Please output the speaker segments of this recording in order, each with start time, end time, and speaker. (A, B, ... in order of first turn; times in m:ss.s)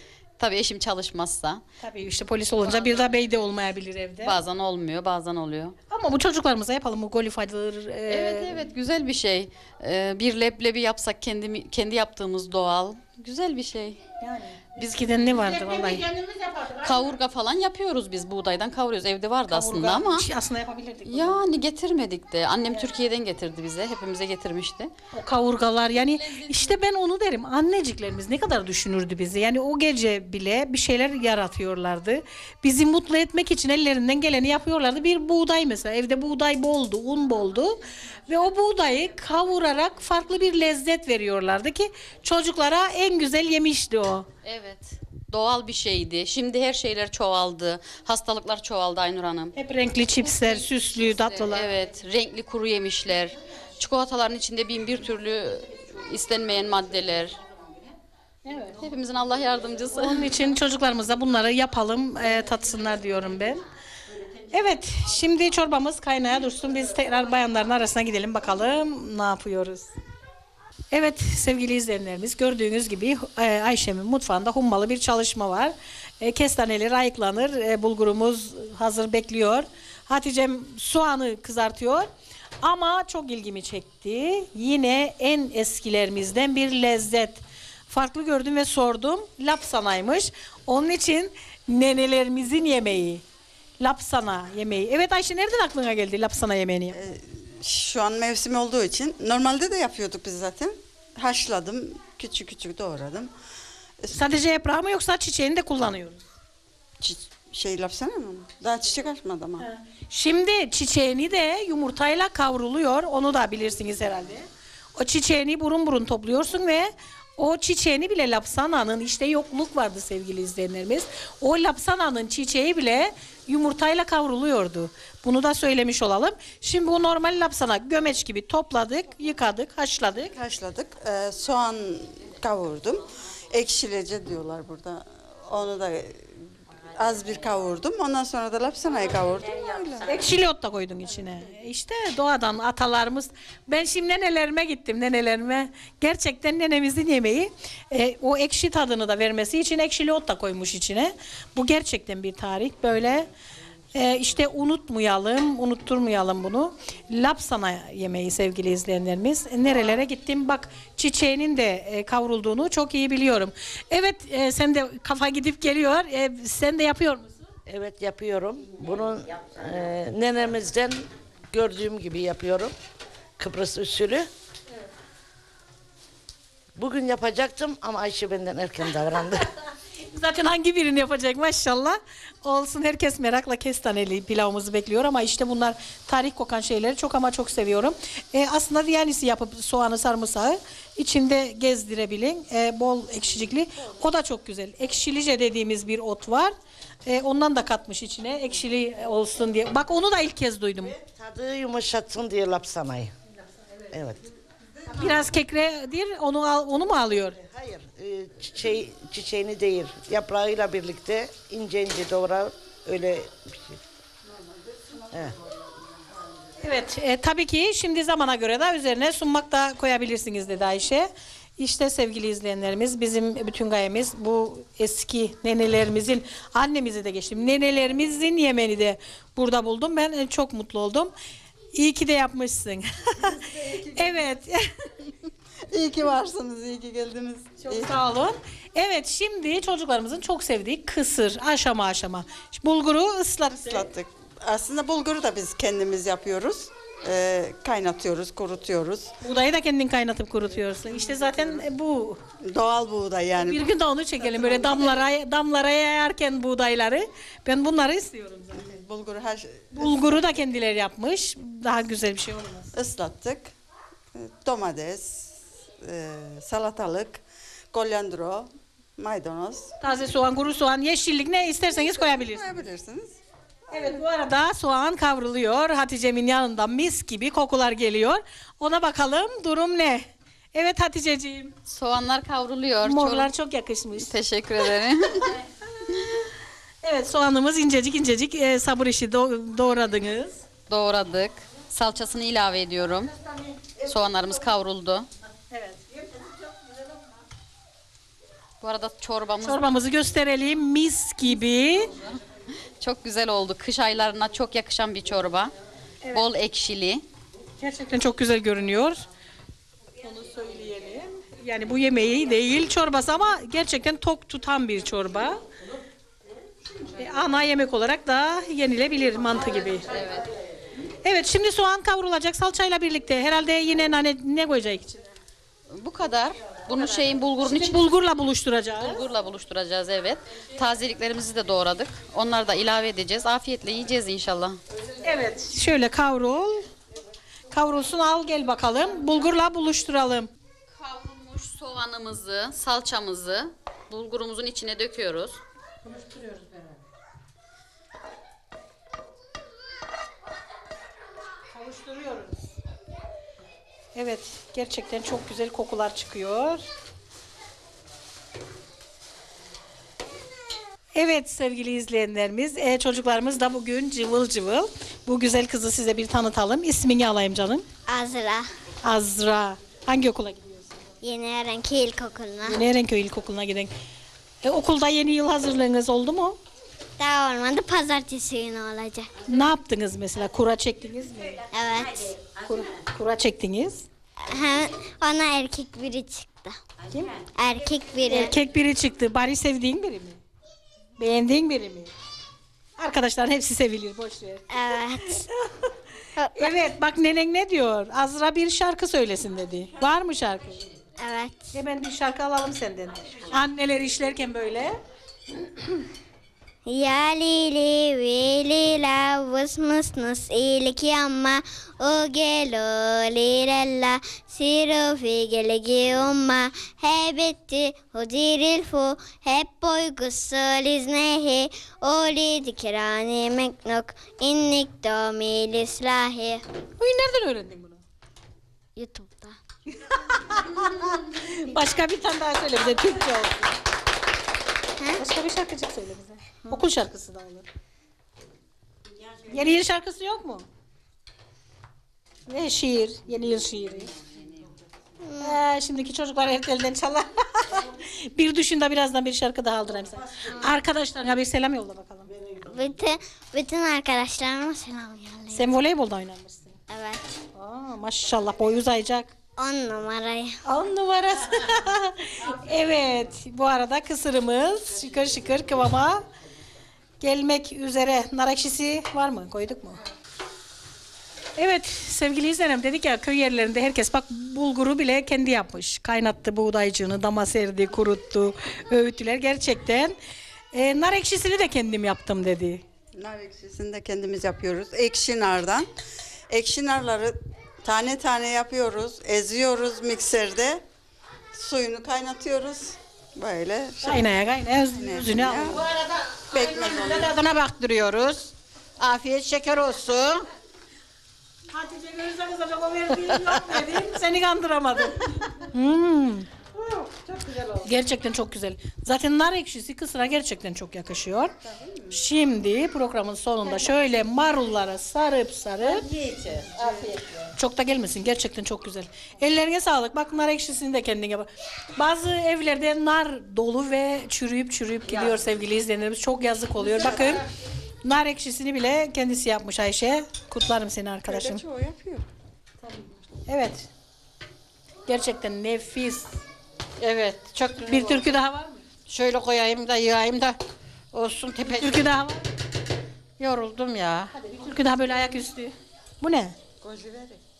0:00.4-0:01.6 A
0:01.8-0:04.4 B
0:04.2-0:05.8 A
0:05.9-0:08.6 B
0:08.1-0:14.0 A
0:14.2-0:16.0 B
0:15.3-0:17.1 C
0:16.8-0:20.3 A
0:19.5-0:21.4 B
0:21.1-0:24.9 A
0:25.1-0:44.3 B
0:25.9-0:26.8 A
0:44.4-0:49.5 A
0:49.5-0:51.7 B
0:50.2-0:57.4 A
0:58.4-0:58.8 B
0:58.7-1:00.4 A
0:59.9-1:03.6 B
1:04.5-1:09.9 B
1:10.9-1:22.1 B
1:22.6-1:33.2 B
1:33.8-1:37.0 B
1:36.9-1:43.3 D
1:44.1-1:46.2 B
1:47.0-1:49.6 D
1:49.6-2:10.3 B
2:10.3-2:16.3 D
2:17.0-2:20.1 D
2:20.1-2:33.3 B
2:33.9-2:47.4 B
2:47.7-2:52.7 E
2:53.4-2:54.3 E
2:56.7-2:59.5 E
3:00.0-3:16.5 B
3:17.0-3:20.9 B
3:20.8-3:23.1 E
3:23.9-3:24.3 E
3:24.9-3:27.4 B
3:27.4-3:33.8 E
3:35.1-3:35.4 E
3:36.6-3:51.1 B
3:51.7-3:54.6 B
3:53.6-3:54.0 D
3:55.7-3:57.9 D
3:57.6-4:03.9 B
4:03.5-4:09.1 D
4:09.2-4:12.2 B
4:12.4-4:13.6 D
4:13.4-4:18.6 B
4:18.5-4:20.2 D
4:19.7-4:22.7 B
4:22.7-4:23.5 D
4:24.1-4:29.7 D
4:29.8-4:32.4 B
4:31.8-4:33.2 D
4:33.7-4:41.5 B
4:41.7-4:43.3 A
4:42.8-4:44.1 B
4:44.0-4:45.4 A
4:46.8-4:50.4 B
4:50.7-4:53.1 A
4:53.8-4:55.1 A
4:55.5-4:55.8 B
4:58.6-4:59.7 A
4:59.4-5:01.9 B
5:02.8-5:05.5 A
5:06.1-5:07.0 A
5:07.6-5:09.0 B
5:10.0-5:15.4 B
5:17.0-5:20.0 B
5:19.9-5:20.3 A
5:21.0-5:25.1 B
5:25.7-5:28.0 A
5:26.8-5:29.0 B
5:28.8-5:34.6 A
5:35.0-5:36.7 B
5:37.5-5:40.3 B
5:40.8-5:45.4 A
5:45.8-5:46.6 B
5:51.5-5:52.4 B
5:53.9-5:56.6 B
6:00.9-6:07.7 B
6:07.9-6:08.5 F
6:08.8-6:10.8 B
6:11.0-6:12.6 F
6:12.4-6:13.7 B
6:14.4-6:16.4 B
6:17.0-6:19.1 F
6:19.3-6:21.4 B
6:21.5-6:22.3 F
6:22.4-6:23.8 B
6:24.2-6:26.5 F
6:27.3-6:28.3 F
6:28.1-6:30.2 B
6:31.0-6:31.9 B
6:32.8-6:34.5 B
6:34.5-6:35.3 F
6:35.1-6:35.4 B
6:36.2-6:36.5 F
6:36.3-6:40.6 B
6:41.0-6:41.5 F
6:41.5-6:44.8 B
6:46.7-7:06.4 F
7:06.8-7:07.8 B
7:08.8-7:09.4 F
7:09.8-7:13.6 B
7:15.0-7:17.4 B
7:19.2-7:20.4 B
7:22.3-7:23.9 B
7:25.0-7:25.4 F
7:25.2-7:32.1 B
7:32.5-7:35.4 F
7:35.3-7:36.6 B
7:36.7-7:37.0 F
7:37.3-7:39.1 B
7:39.4-7:40.4 F
7:40.4-7:46.0 B
7:47.0-7:49.8 B
7:51.4-8:00.0 B
8:00.5-8:02.6 B
8:03.0-8:05.7 D
8:06.3-8:10.6 D
8:11.3-8:14.1 D
8:13.8-8:15.6 B
8:14.7-8:15.6 D
8:15.5-8:20.2 C
8:16.3-8:17.2 D
8:21.5-8:26.3 B
8:26.7-8:27.6 C
8:27.6-8:31.3 B
8:31.9-8:35.9 B
8:35.7-8:37.1 C
8:37.4-8:47.2 B
8:46.7-8:47.1 C
8:47.8-8:51.4 B
8:51.1-8:52.0 D
8:52.7-8:53.7 B
8:54.9-8:56.2 B
8:56.8-8:58.1 C
8:57.7-8:58.6 B
8:58.9-9:00.4 C
9:00.9-9:01.8 C
9:01.5-9:02.2 B
9:03.2-9:04.1 C
9:04.1-9:06.4 B
9:06.6-9:07.2 D